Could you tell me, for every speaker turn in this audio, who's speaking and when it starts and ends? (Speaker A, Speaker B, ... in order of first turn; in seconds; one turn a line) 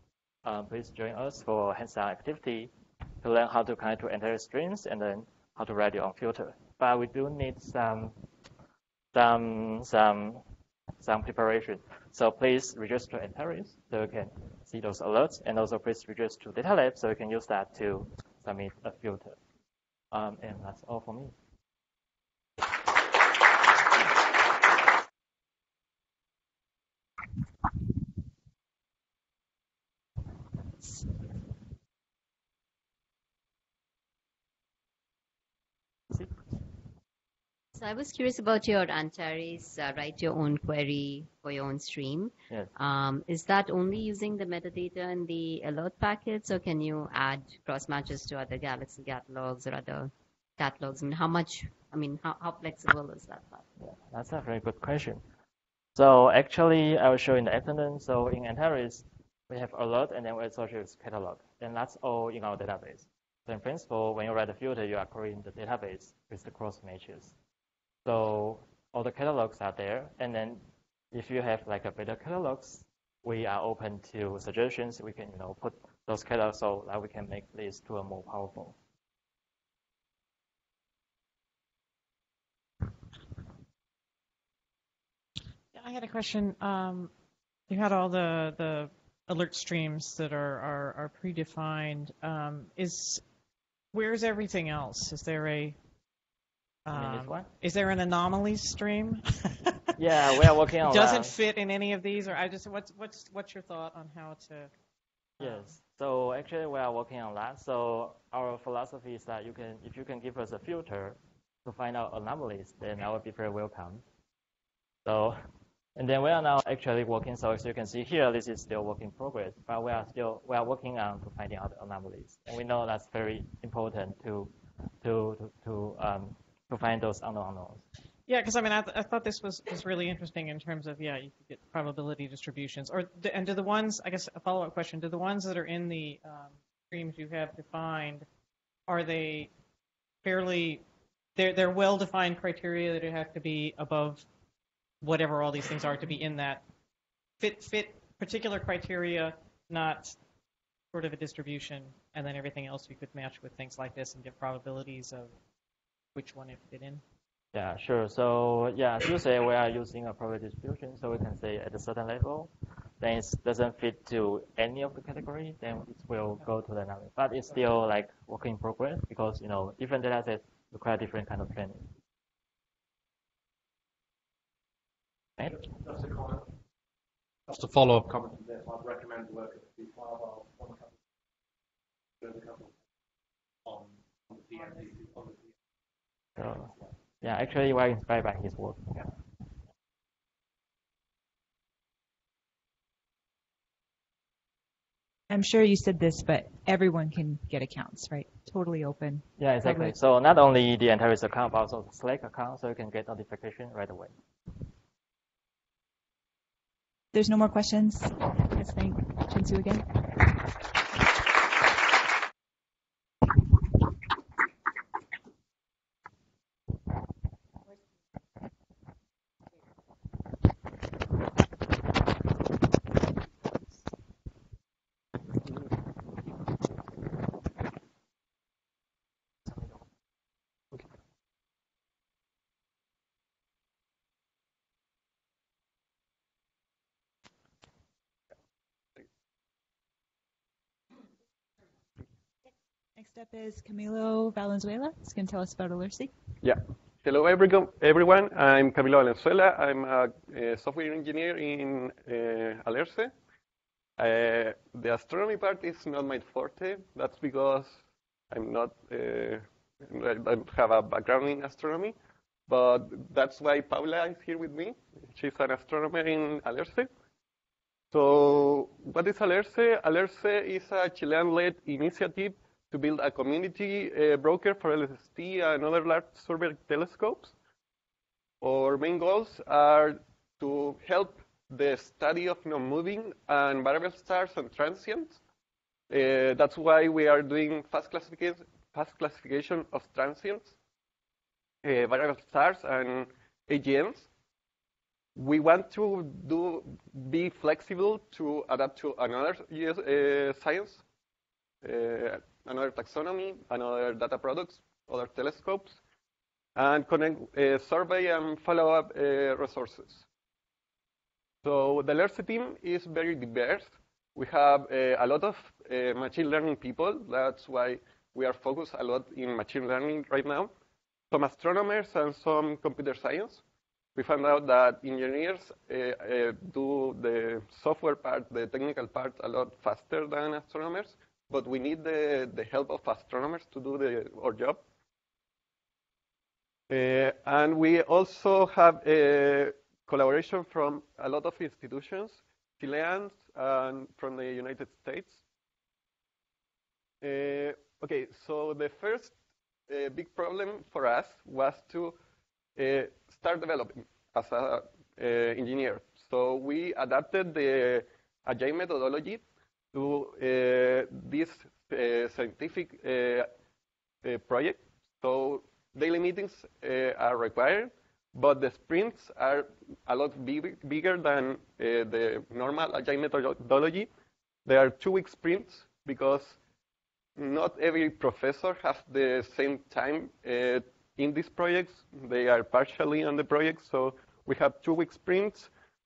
Speaker A: 0.5-2.7
Speaker A: 3.2-8.1
Speaker A: 9.1-10.4
Speaker A: 11.0-19.4
Speaker A: 20.1-21.3
Speaker B: 37.7-53.7
Speaker A: 53.8-55.2
Speaker A: 56.0-67.3
Speaker A: 68.0-78.8
Speaker C: 85.7-87.1
Speaker C: 87.7-93.2
Speaker C: 93.9-95.8
Speaker C: 96.9-99.3
Speaker A: 96.9-97.5
Speaker A: 100.0-101.3
Speaker C: 100.8-104.7
Speaker C: 105.4-105.8
Speaker A: 105.4-114.0
Speaker A: 115.0-115.4
Speaker A: 116.0-124.5
Speaker A: 125.0-127.8
Speaker C: 128.3-138.3
Speaker C: 138.9-139.5
Speaker C: 140.2-140.8
Speaker C: 141.4-144.3
Speaker C: 145.0-146.6
Speaker C: 147.4-150.2
Speaker C: 150.9-155.3
Speaker C: 156.2-157.0
Speaker A: 157.5-171.9
Speaker A: 175.4-175.7
Speaker D: 175.8-176.4
Speaker D: 177.5-180.9
Speaker D: 182.2-182.7
Speaker D: 183.7-185.4
Speaker A: 186.4-189.1
Speaker E: 195.3-200.0
Speaker A: 199.4-204.1
Speaker E: 207.1-210.3
Speaker E: 243.0-246.1
Speaker F: 246.4-253.1
Speaker F: 254.0-257.8
Speaker F: 258.3-262.0
Speaker F: 262.5-266.9
Speaker F: 267.9-277.4
Speaker F: 278.4-285.2
Speaker F: 285.9-290.6
Speaker F: 291.6-294.1
Speaker F: 295.2-300.8
Speaker F: 301.6-305.8
Speaker F: 306.6-310.1
Speaker F: 311.4-320.5
Speaker F: 321.1-323.4
Speaker F: 324.0-334.6
Speaker F: 336.7-345.2
Speaker F: 347.0-349.2
Speaker F: 349.7-352.0
Speaker F: 352.6-359.2
Speaker F: 359.7-363.3
Speaker F: 364.0-373.9
Speaker F: 374.5-376.4
Speaker F: 377.2-385.5